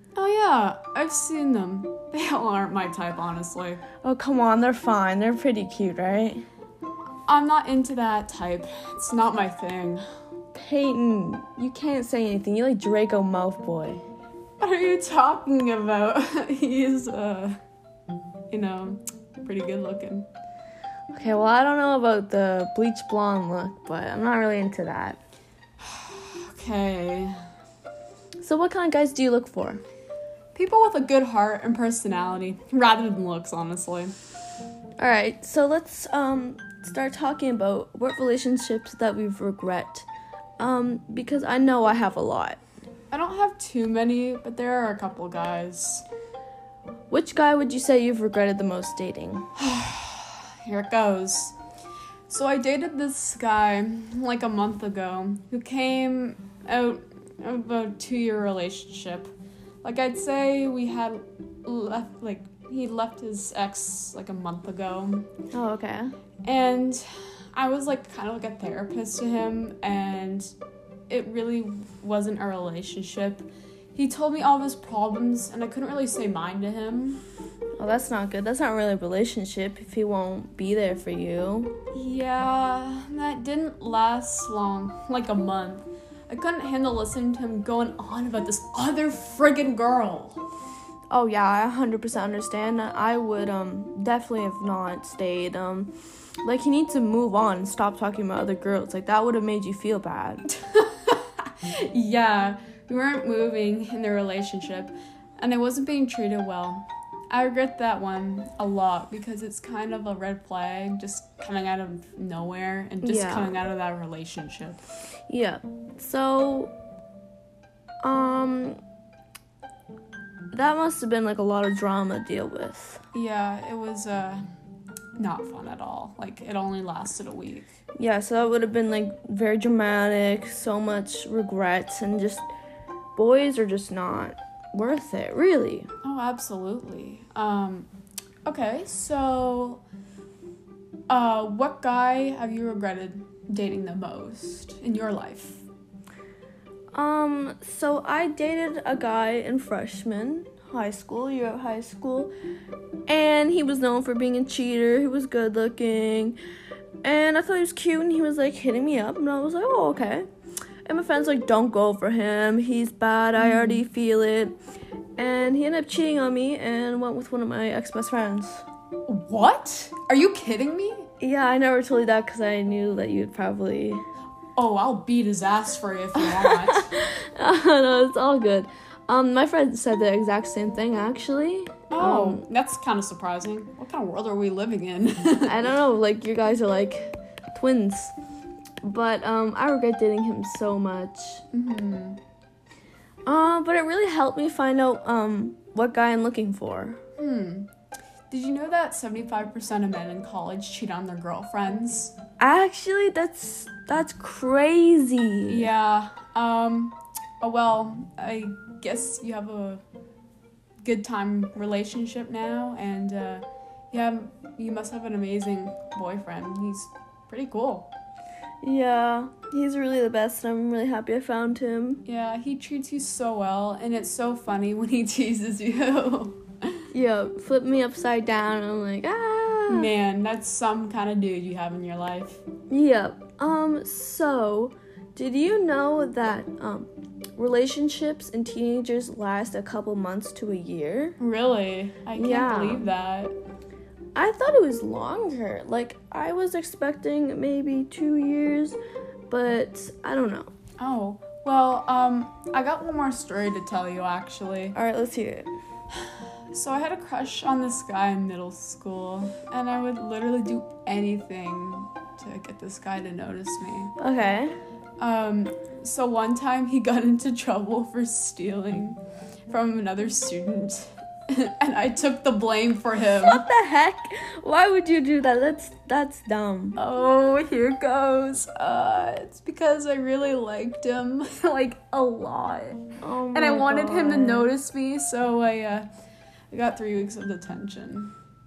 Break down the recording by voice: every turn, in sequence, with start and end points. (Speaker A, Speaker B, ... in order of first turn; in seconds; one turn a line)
Speaker A: 0.1-3.8
Speaker B: 4.0-6.4
Speaker A: 7.3-10.0
Speaker B: 10.5-14.0
Speaker A: 14.6-17.6
Speaker A: 18.5-20.3
Speaker B: 21.1-25.2
Speaker A: 25.8-27.3
Speaker B: 28.4-29.8
Speaker A: 30.5-34.1
Speaker B: 35.0-40.1
Speaker B: 40.6-42.6
Speaker A: 43.1-46.0
Speaker B: 47.1-49.5
Speaker A: 49.5-51.5
Speaker A: 52.3-59.3
Speaker A: 59.8-65.3
Speaker B: 65.5-66.1
Speaker A: 66.4-70.5
Speaker A: 71.1-77.2
Speaker B: 77.8-81.7
Speaker A: 81.9-90.4
Speaker B: 91.1-95.9
Speaker B: 96.4-100.4
Speaker A: 100.5-114.8
Speaker B: 113.0-113.6
Speaker B: 115.3-116.7
Speaker B: 118.0-118.8
Speaker B: 120.5-123.0
Speaker A: 123.1-124.4
Speaker A: 125.2-127.7
Speaker B: 128.0-132.5
Speaker B: 133.2-135.9
Speaker A: 136.0-137.9
Speaker A: 138.4-139.8
Speaker A: 141.1-145.6
Speaker B: 146.9-152.3
Speaker B: 153.1-156.4
Speaker B: 157.0-160.3
Speaker B: 160.8-164.6
Speaker A: 163.4-163.8
Speaker B: 165.2-168.7
Speaker A: 169.1-171.1
Speaker B: 171.2-174.0
Speaker A: 174.5-176.9
Speaker B: 176.2-182.4
Speaker A: 181.9-185.7
Speaker B: 185.4-188.1
Speaker B: 188.8-191.4
Speaker A: 191.5-192.2
Speaker B: 193.2-197.0
Speaker A: 197.2-197.7
Speaker A: 198.3-202.2
Speaker B: 202.4-205.7
Speaker A: 205.5-209.8
Speaker A: 210.8-217.9
Speaker B: 218.6-222.0
Speaker A: 222.0-226.8
Speaker B: 226.9-229.9
Speaker A: 229.7-232.4
Speaker B: 232.7-241.2
Speaker A: 241.2-243.4
Speaker B: 242.1-242.9
Speaker B: 244.1-248.8
Speaker B: 249.3-250.5
Speaker A: 250.8-254.8
Speaker B: 254.7-255.5
Speaker A: 256.0-263.9
Speaker B: 264.0-264.5
Speaker A: 265.0-273.4
Speaker B: 273.1-276.8
Speaker A: 276.8-285.9
Speaker B: 283.0-284.5
Speaker A: 286.5-288.1